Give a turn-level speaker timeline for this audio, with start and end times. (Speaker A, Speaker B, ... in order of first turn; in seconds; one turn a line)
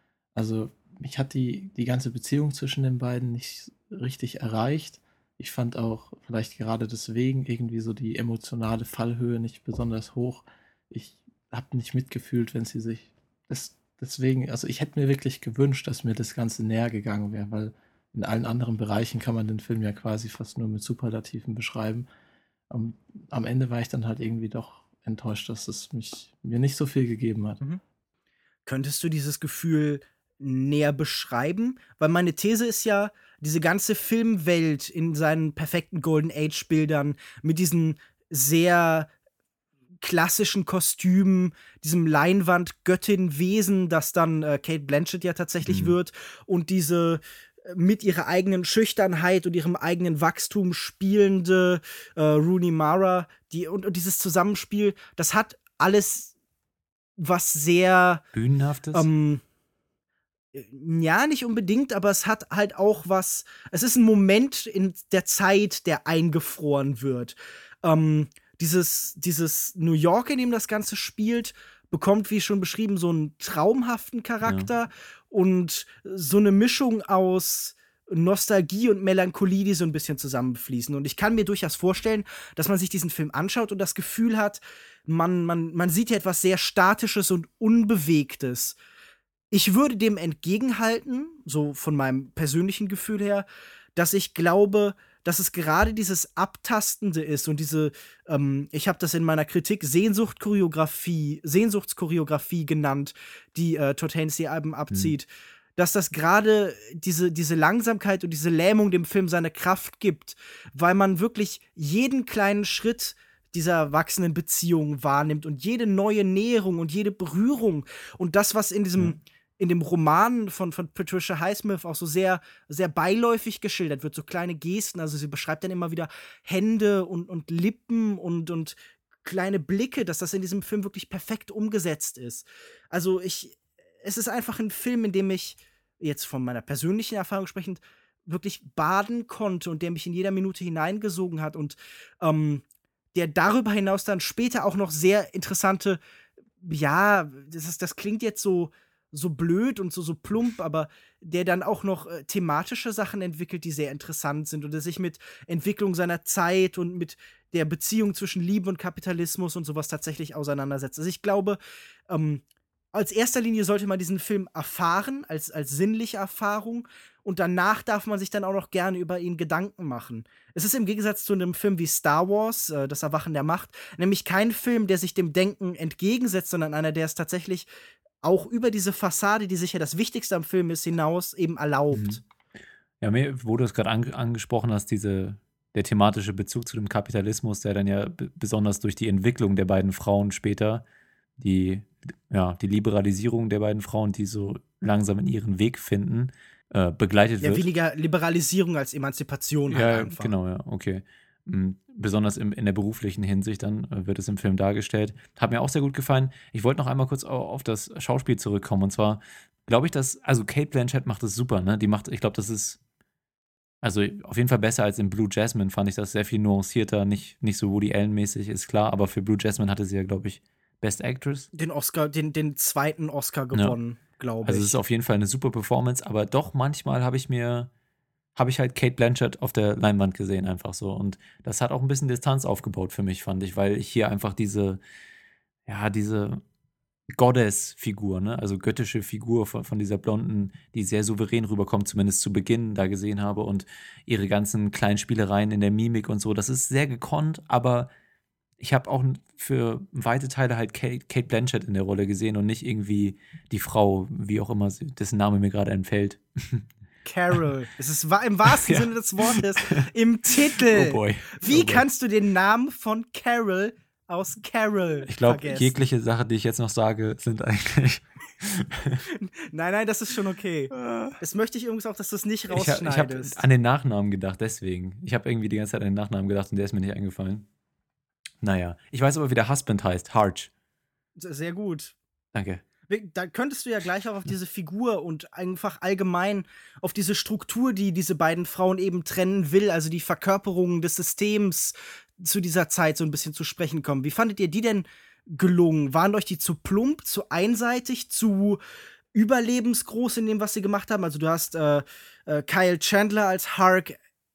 Speaker A: 0.3-22.1
Speaker A: 22.7-27.6
Speaker B: 28.6-39.1
Speaker B: 40.0-56.3
Speaker C: 45.6-45.9
Speaker B: 57.2-58.2
Speaker C: 58.3-59.1
Speaker B: 58.9-59.4
Speaker B: 60.5-88.8
Speaker C: 74.4-74.7
Speaker B: 89.5-146.0
Speaker B: 146.6-177.7
Speaker B: 178.2-182.2
Speaker C: 181.9-182.2
Speaker C: 183.0-190.8
Speaker C: 191.4-197.6
Speaker B: 197.4-200.3
Speaker C: 199.7-212.8
Speaker C: 213.8-221.5
Speaker B: 221.5-224.8
Speaker C: 224.4-227.7
Speaker C: 228.3-234.8
Speaker C: 235.7-236.4
Speaker C: 237.1-247.9
Speaker C: 248.6-256.6
Speaker B: 257.0-265.7
Speaker C: 258.5-259.9
Speaker C: 260.6-261.8
Speaker C: 265.1-269.0
Speaker B: 269.1-273.4
Speaker C: 270.8-271.1
Speaker C: 272.5-277.4
Speaker C: 278.4-280.5
Speaker B: 281.2-281.9
Speaker C: 282.3-282.6
Speaker B: 282.9-298.6
Speaker B: 299.1-304.0